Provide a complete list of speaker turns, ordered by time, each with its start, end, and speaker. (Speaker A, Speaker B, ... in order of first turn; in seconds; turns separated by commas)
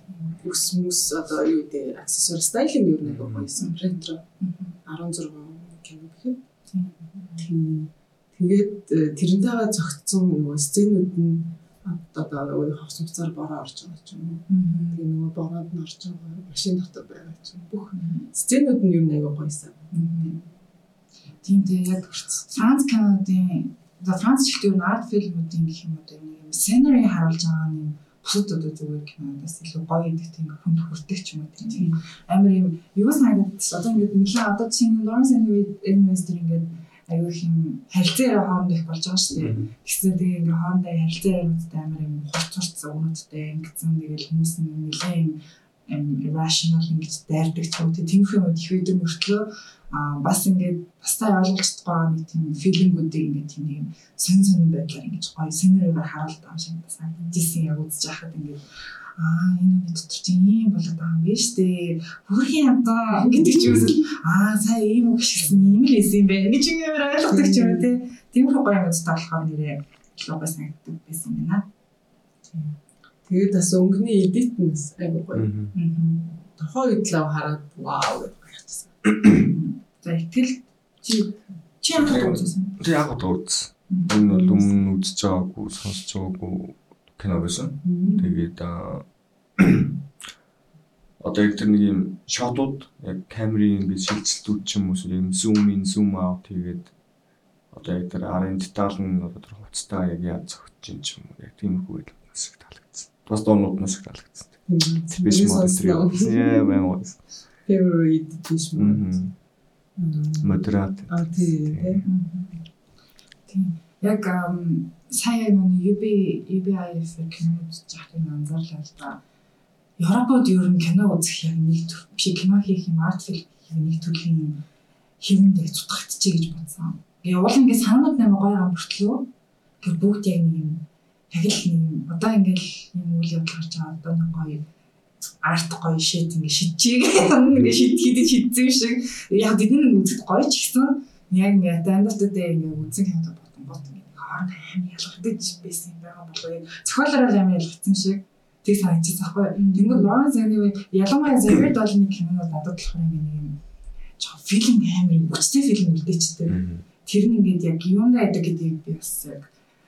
Speaker A: 0.4-4.2, Speaker B: 3.0-3.5, Speaker C: 3.6-4.8, Speaker A: 4.8-6.4, Speaker C: 6.7-7.4, Speaker A: 7.4-19.9, Speaker C: 14.5-15.0, Speaker C: 17.9-18.3, Speaker C: 19.9-20.4, Speaker C: 21.4-58.6, Speaker A: 31.8-32.0, Speaker B: 39.4-39.7, Speaker C: 59.2-71.7, Speaker A: 63.1-64.0, Speaker A: 67.3-67.9, Speaker A: 72.5-75.5, Speaker B: 75.3-75.7, Speaker C: 75.7-76.3, Speaker A: 76.6-79.2, Speaker C: 79.4-82.8, Speaker B: 81.9-89.0, Speaker C: 83.9-84.2, Speaker A: 84.1-84.8, Speaker A: 87.8-88.3, Speaker C: 88.0-88.3, Speaker B: 89.6-90.0, Speaker B: 91.2-96.9, Speaker B: 97.7-104.6, Speaker A: 104.7-106.9, Speaker B: 105.1-107.2, Speaker A: 107.7-109.2, Speaker B: 108.8-109.3, Speaker A: 110.0-112.0, Speaker B: 110.4-112.1, Speaker C: 112.0-112.6, Speaker C: 113.5-119.2, Speaker C: 120.0-124.6, Speaker C: 125.2-129.3, Speaker C: 129.8-134.6, Speaker C: 135.4-153.6, Speaker A: 149.6-150.1, Speaker C: 154.2-159.5, Speaker B: 156.5-156.8